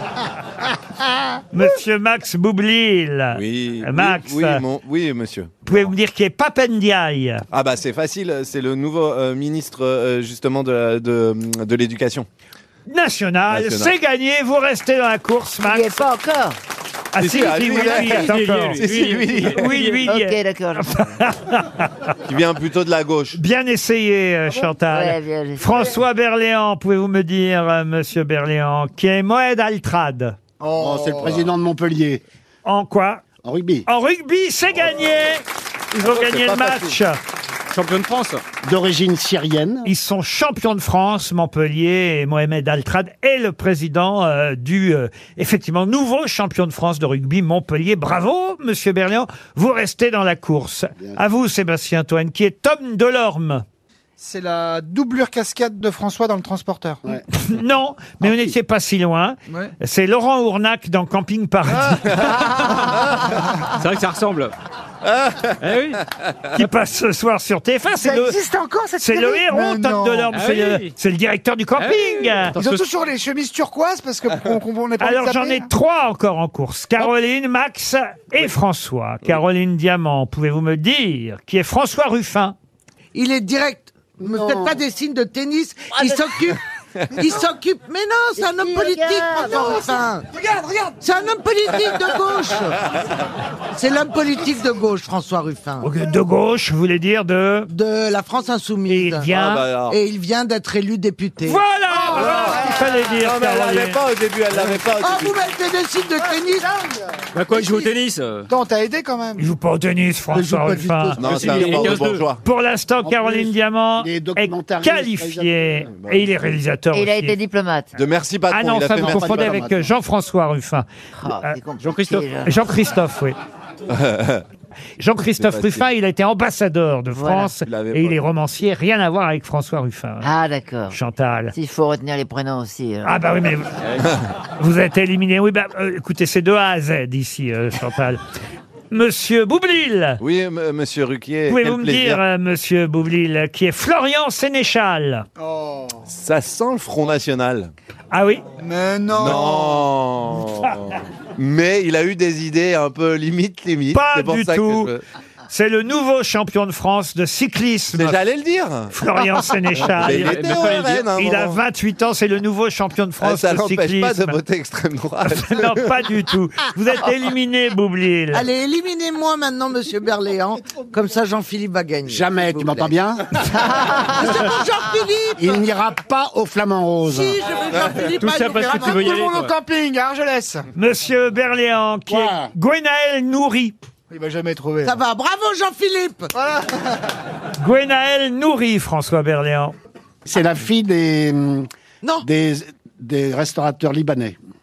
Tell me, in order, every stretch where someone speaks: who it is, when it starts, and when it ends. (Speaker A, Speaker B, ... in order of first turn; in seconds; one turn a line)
Speaker A: 1.5-4.6
Speaker B: 3.3-5.9
Speaker A: 5.7-7.5
Speaker B: 7.5-12.3
Speaker A: 12.9-16.0
Speaker B: 13.5-13.9
Speaker C: 15.6-16.6
Speaker A: 17.1-18.9
Speaker B: 17.2-19.7
Speaker D: 17.7-20.0
Speaker A: 19.4-22.1
Speaker C: 20.1-21.1
Speaker B: 22.3-23.4
Speaker A: 23.3-30.4
Speaker C: 24.9-26.0
Speaker E: 30.6-31.4
Speaker F: 30.8-32.2
Speaker A: 32.6-33.2
Speaker F: 33.4-33.9
Speaker A: 33.9-37.2
Speaker B: 36.0-37.0
Speaker D: 37.7-38.4
Speaker F: 38.6-39.9
Speaker A: 39.9-53.6
Speaker E: 54.2-57.1
Speaker A: 57.3-62.3
Speaker D: 62.5-62.9
Speaker D: 63.8-64.5
Speaker B: 65.0-65.6
Speaker D: 65.6-66.0
Speaker A: 66.5-68.4
Speaker E: 68.0-70.3
Speaker A: 69.0-72.6
Speaker D: 70.3-70.9
Speaker D: 71.8-72.9
Speaker E: 72.5-75.7
Speaker A: 75.0-82.5
Speaker G: 83.1-86.6
Speaker F: 84.2-84.8
Speaker G: 87.1-90.3
Speaker C: 88.4-89.8
Speaker G: 91.0-92.8
Speaker G: 93.7-95.9
Speaker A: 95.8-97.7
Speaker G: 97.7-99.3
Speaker A: 98.9-99.7
Speaker B: 99.3-100.0
Speaker G: 99.9-101.6
Speaker A: 101.4-104.0
Speaker E: 101.9-103.0
Speaker B: 102.2-105.4
Speaker G: 105.0-106.7
Speaker E: 106.6-107.0
Speaker D: 107.3-108.5
Speaker G: 107.5-107.9
Speaker E: 108.5-109.5
Speaker A: 109.4-111.8
Speaker G: 110.3-111.5
Speaker B: 111.2-112.4
Speaker D: 111.2-112.3
Speaker A: 112.4-117.4
Speaker F: 113.1-115.8
Speaker B: 116.0-116.2
Speaker C: 116.9-117.9
Speaker B: 118.0-119.7
Speaker A: 118.5-120.9
Speaker F: 119.0-119.7
Speaker C: 121.2-122.6
Speaker D: 121.8-122.3
Speaker A: 122.5-123.4
Speaker B: 123.9-124.4
Speaker A: 125.0-130.3
Speaker B: 125.4-125.9
Speaker C: 127.1-127.5
Speaker B: 127.6-128.2
Speaker C: 130.2-131.0
Speaker A: 130.9-131.5
Speaker C: 131.5-133.1
Speaker A: 133.0-133.8
Speaker D: 133.8-134.1
Speaker A: 134.6-138.2
Speaker A: 138.9-140.2
Speaker B: 140.2-142.2
Speaker A: 141.5-145.3
Speaker E: 145.4-146.1
Speaker B: 146.1-147.7
Speaker A: 148.1-148.4
Speaker E: 148.6-149.9
Speaker B: 149.1-155.0
Speaker A: 153.9-154.9
Speaker A: 155.5-158.2
Speaker B: 157.9-158.9
Speaker A: 158.9-164.4
Speaker B: 159.8-161.6
Speaker D: 160.0-161.1
Speaker B: 163.2-165.9
Speaker A: 165.3-168.4
Speaker G: 168.3-172.9
Speaker F: 172.1-174.6
Speaker G: 173.8-175.7
Speaker F: 175.4-177.4
Speaker G: 177.1-179.2
Speaker D: 178.2-179.5
Speaker E: 178.5-180.7
Speaker A: 180.8-183.8
Speaker F: 182.1-182.5
Speaker E: 184.1-185.0
Speaker G: 184.8-186.3
Speaker E: 186.3-186.9
Speaker A: 187.6-189.8
Speaker F: 190.2-191.7
Speaker G: 192.0-192.3
Speaker F: 192.2-194.4